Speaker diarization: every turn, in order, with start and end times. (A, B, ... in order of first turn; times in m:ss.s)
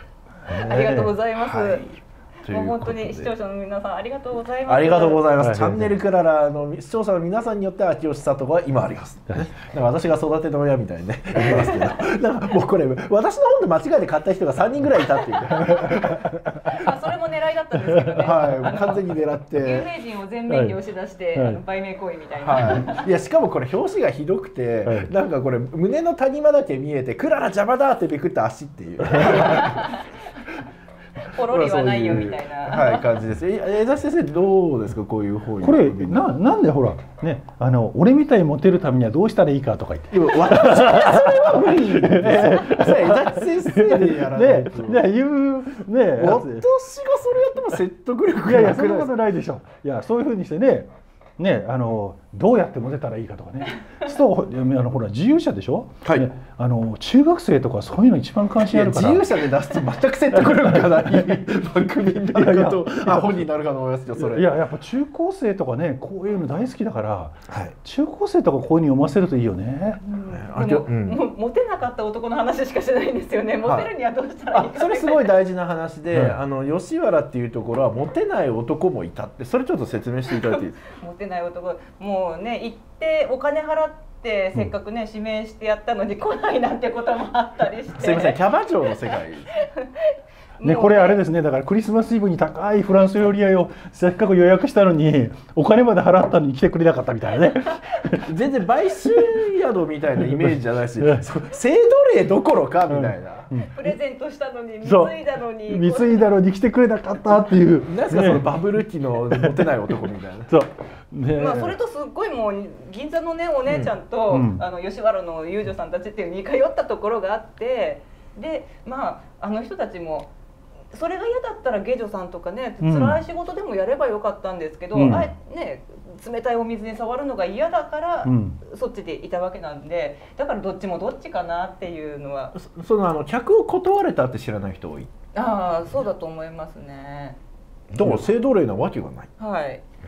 0:00.5-0:01.8 A
0:00.5-0:01.1 B
0:00.6-0:03.3 C
0:02.4-0:05.3 A
0:04.7-0:16.3 C
0:05.4-0:05.9 B
0:15.7-0:16.0 B
0:15.8-0:23.1 A
0:18.1-0:19.9 C
0:20.5-0:20.8 B
0:21.3-0:21.6 B
0:22.4-0:30.0 C
0:24.9-0:25.1 B
0:29.4-0:30.0 A
0:31.2-0:33.1 A
0:31.4-0:36.2 C
0:35.6-0:46.7 B
0:40.1-0:45.0 C
0:46.2-0:49.1 C
0:48.4-0:59.3 B
0:56.0-0:56.3 C
0:58.6-1:04.6 C
1:00.4-1:01.4 B
1:02.2-1:03.4 B
1:04.2-1:10.0 B
1:07.5-1:07.8 C
1:10.0-1:15.3 A
1:10.3-1:11.2 C
1:13.6-1:13.9 C
1:14.5-1:20.8 C
1:20.9-1:28.4 A
1:27.9-1:29.6 C
1:29.1-1:31.2 A
1:30.6-1:38.3 B
1:38.3-1:43.5 C
1:41.0-1:41.3 B
1:42.9-1:43.9 B
1:43.6-1:46.2 A
1:44.8-1:48.5 B
1:47.8-1:50.5 C
1:49.3-1:49.8 B
1:50.5-1:51.8 B
1:51.3-2:00.3 A
1:53.7-1:53.9 C
1:54.3-1:54.6 B
2:00.9-2:12.5 A
2:02.8-2:03.2 B
2:04.9-2:05.3 B
2:08.2-2:08.6 B
2:12.5-2:15.1 C
2:15.4-2:17.4 A
2:17.9-2:19.3 C
2:19.4-2:19.8 A